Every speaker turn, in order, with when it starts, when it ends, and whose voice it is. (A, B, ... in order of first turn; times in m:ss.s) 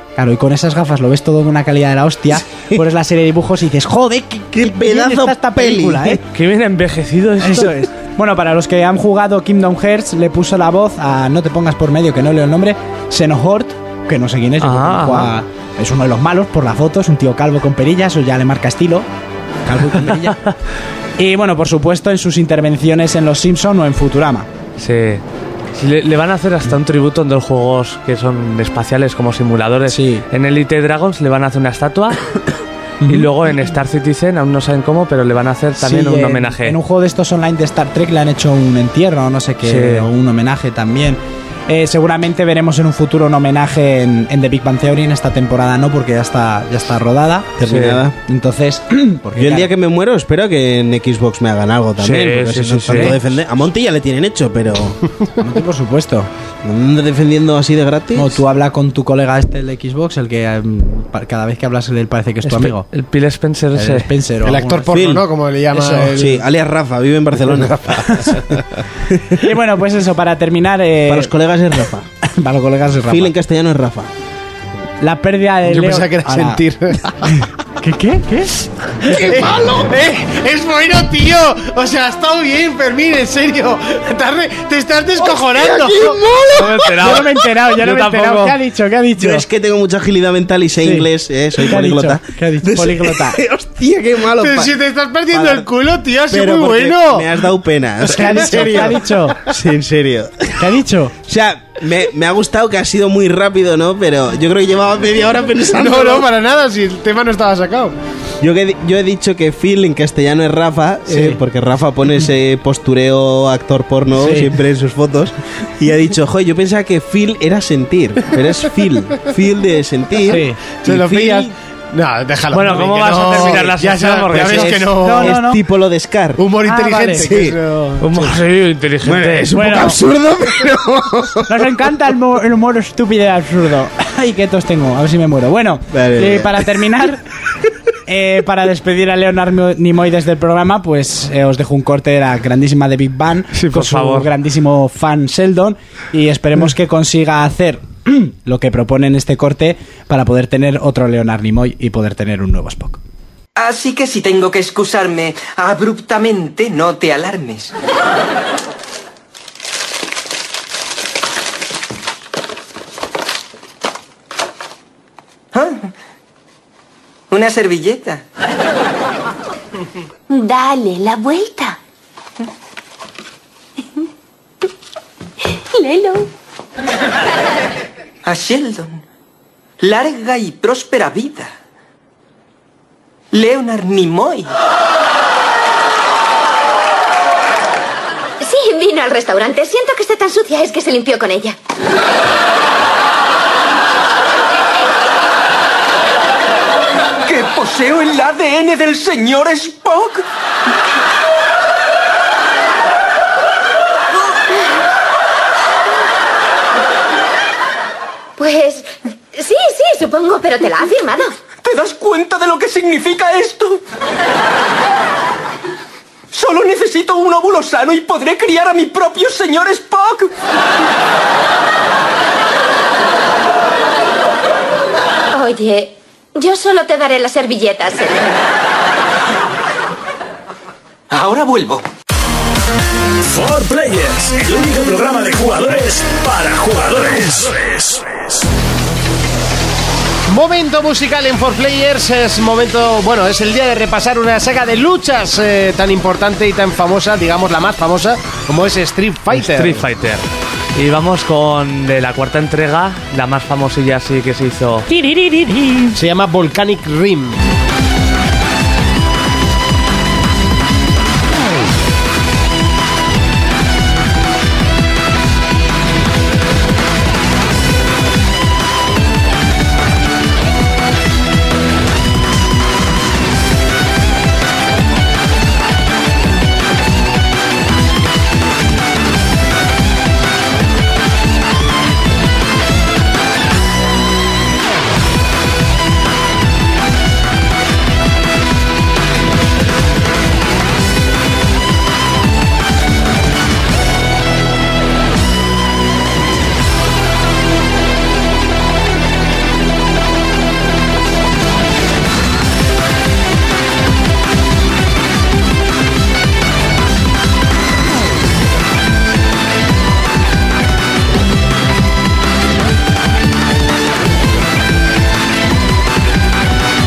0:00.2-0:06.2 A
0:04.5-0:06.2 B
0:06.3-0:07.8 C
0:07.4-0:19.0 A
0:14.6-0:15.3 C
0:19.6-0:20.5 A
0:21.2-0:24.5 A
0:24.8-0:25.2 C
0:25.7-0:32.2 C
0:29.9-0:30.2 A
0:33.0-0:33.3 A
0:33.1-0:36.8 C
0:35.8-0:47.5 A
0:39.6-0:40.1 C
0:47.6-0:48.2 B
0:47.6-0:48.0 C
0:48.2-0:49.7 A
0:49.4-0:55.0 B
0:52.0-0:53.2 C
0:52.9-0:53.2 A
0:55.4-0:56.3 A
0:56.6-0:58.4 B
0:58.1-1:02.9 A
1:02.4-1:04.1 C
1:03.7-1:04.9 A
1:04.4-1:06.4 D
1:04.9-1:05.2 B
1:05.7-1:06.2 A
1:06.1-1:08.4 B
1:07.5-1:08.6 D
1:08.1-1:08.4 A
1:09.3-1:11.3 A
1:11.1-1:12.1 B
1:12.2-1:13.3 A
1:13.1-1:14.1 B
1:15.0-1:16.6 A
1:15.6-1:17.4 D
1:17.2-1:19.5 A
1:19.0-1:26.9 D
1:25.5-1:26.8 B
1:26.6-1:28.6 C
1:26.9-1:29.4 A
1:29.2-1:34.7 B
1:30.8-1:33.4 A
1:34.4-1:37.3 D
1:35.3-1:35.7 B
1:36.3-1:40.7 B
1:38.0-1:39.4 A
1:38.2-1:39.1 D
1:40.6-1:41.1 A
1:41.2-1:46.3 B
1:45.7-1:47.9 D
1:48.4-2:01.5 B
1:51.1-1:51.4 A
1:54.2-1:54.5 A
2:00.3-2:00.6 A
2:00.8-2:05.4 D
2:02.5-2:04.9 C
2:04.3-2:06.4 B
2:04.9-2:05.6 A
2:06.4-2:08.3 D
2:06.6-2:07.3 A
2:07.2-2:07.6 B
2:08.0-2:09.5 C
2:09.0-2:11.6 B
2:09.5-2:10.0 A
2:11.5-2:17.2 A
2:15.9-2:16.7 B
2:18.1-2:33.0 A
2:23.5-2:24.3 C
2:33.6-2:37.7 E
2:47.3-2:48.2 E
2:50.3-2:51.8 F
2:55.7-2:56.3 F
2:58.2-2:58.9 E
2:59.8-3:01.5 E
3:03.3-3:04.5 E
3:08.4-3:11.6 F
3:17.2-3:20.2 E
3:28.4-3:31.3 F
3:31.6-3:33.8 E
3:36.3-3:40.3 E
3:45.3-3:48.3 F
3:51.1-3:51.8 E
3:53.2-3:58.4 G
4:00.3-4:09.8 D
4:09.3-4:10.2 C
4:10.7-4:14.9 C
4:15.0-4:15.7 A
4:15.9-4:17.4 D